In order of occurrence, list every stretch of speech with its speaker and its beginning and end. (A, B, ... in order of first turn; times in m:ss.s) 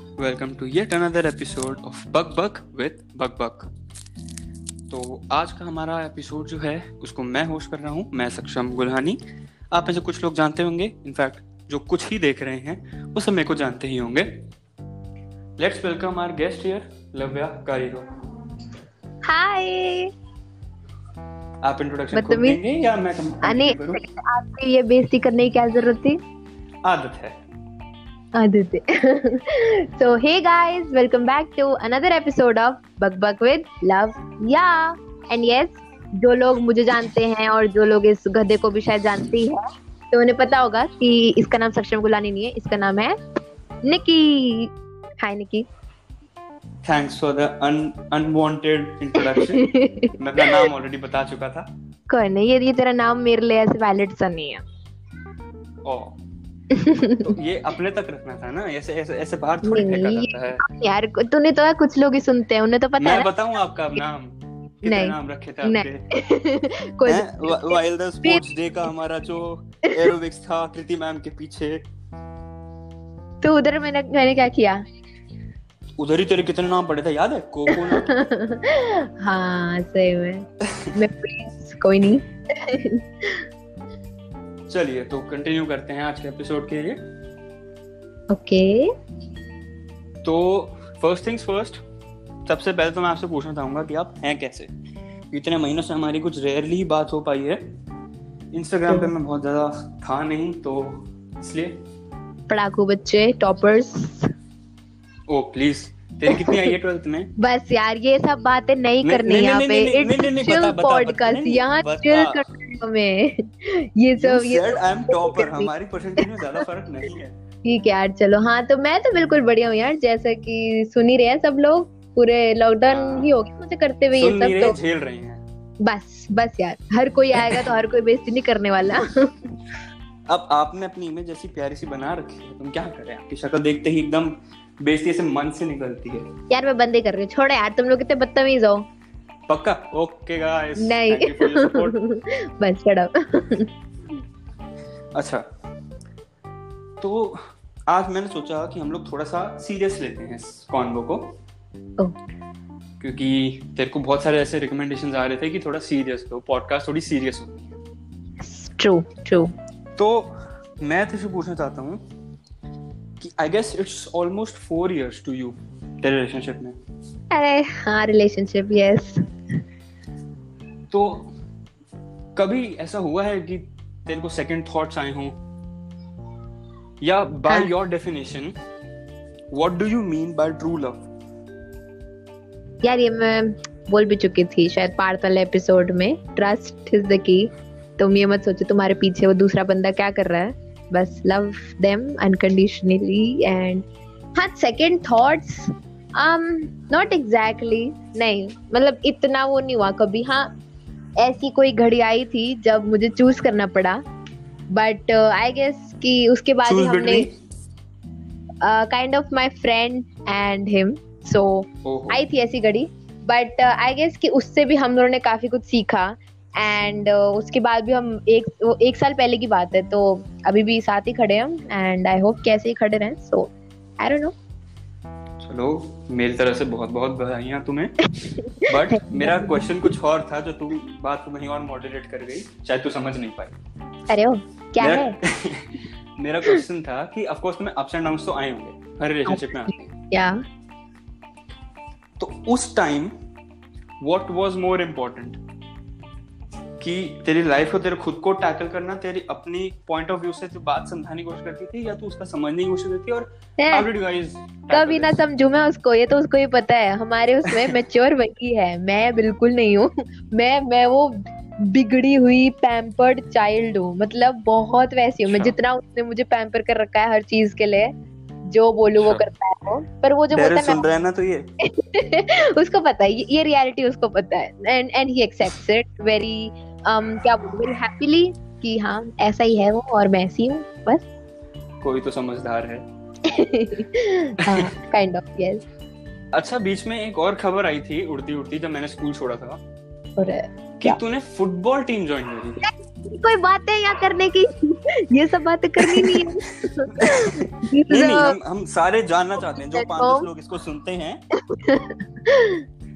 0:00.2-0:03.7 A
0:04.9-0:09.2 A
0:09.7-0:14.3 A
0:15.6-0:18.1 A
0:19.2-0:20.1 B
0:21.6-0:24.0 A
0:22.1-0:22.6 B
0:23.4-0:26.2 B
0:26.8-0:27.4 A
0:28.4-0:43.2 B
0:43.8-0:45.7 B
0:46.8-0:51.7 A
0:49.2-0:50.7 B
0:52.1-0:54.6 B
0:55.8-0:56.2 A
0:56.7-0:57.4 B
0:57.2-1:00.6 A
0:59.6-1:03.3 B
1:03.0-1:06.0 A
1:04.8-1:08.4 B
1:07.1-1:11.8 A
1:13.4-1:14.8 B
1:16.0-1:18.1 A
1:17.7-1:23.4 B
1:24.7-1:27.0 A
1:28.3-1:28.9 B
1:30.2-1:31.8 A
1:32.5-1:34.7 A
1:35.3-1:37.6 A
1:38.5-1:41.8 A
1:42.5-1:44.3 B
1:45.3-1:47.3 A
1:46.3-1:46.7 B
1:47.4-1:56.6 B
1:49.0-1:52.4 A
1:54.2-1:57.4 A
1:57.6-2:04.8 B
2:02.9-2:03.3 A
2:04.2-2:05.4 A
2:05.8-2:09.5 B
2:10.3-2:16.3 A
2:16.5-2:18.8 B
2:19.5-2:22.0 A
2:20.8-2:23.7 B
2:25.2-2:25.4 A
2:27.0-2:31.3 A
2:33.0-2:37.8 A
2:38.4-2:39.5 B
2:40.0-2:42.0 A
2:43.2-2:46.8 A
2:47.3-2:49.2 B
2:50.9-2:51.3 A
2:52.4-2:55.4 A
2:57.0-2:58.5 A
2:59.5-3:01.1 A
3:02.8-3:20.5 B
3:21.2-3:24.0 B
3:24.7-3:27.3 B
3:26.6-3:27.3 A
3:28.6-3:44.3 B
3:31.8-3:32.2 A
3:45.4-3:48.0 A
3:48.3-3:49.7 B
3:48.6-3:53.6 A
3:54.1-3:55.2 B
3:54.8-3:59.7 A
3:59.3-4:00.4 B
4:02.2-4:03.1 A
4:04.0-4:05.4 A
4:06.8-4:15.2 A
4:13.6-4:13.9 B
4:14.7-4:27.9 B
4:17.5-4:17.8 A
4:25.3-4:25.6 A
4:28.5-4:30.9 B
4:29.0-4:29.2 A
4:30.3-4:31.5 A
4:31.6-4:41.1 B
4:41.8-4:42.9 A
4:43.2-4:45.6 B
4:44.4-4:44.7 A
4:46.3-4:49.6 A
4:50.2-4:51.0 B
4:50.8-4:52.6 A
4:52.6-4:58.4 B
4:55.8-4:56.4 A
4:57.0-5:01.2 A
4:59.4-5:00.3 B
5:01.5-5:02.6 B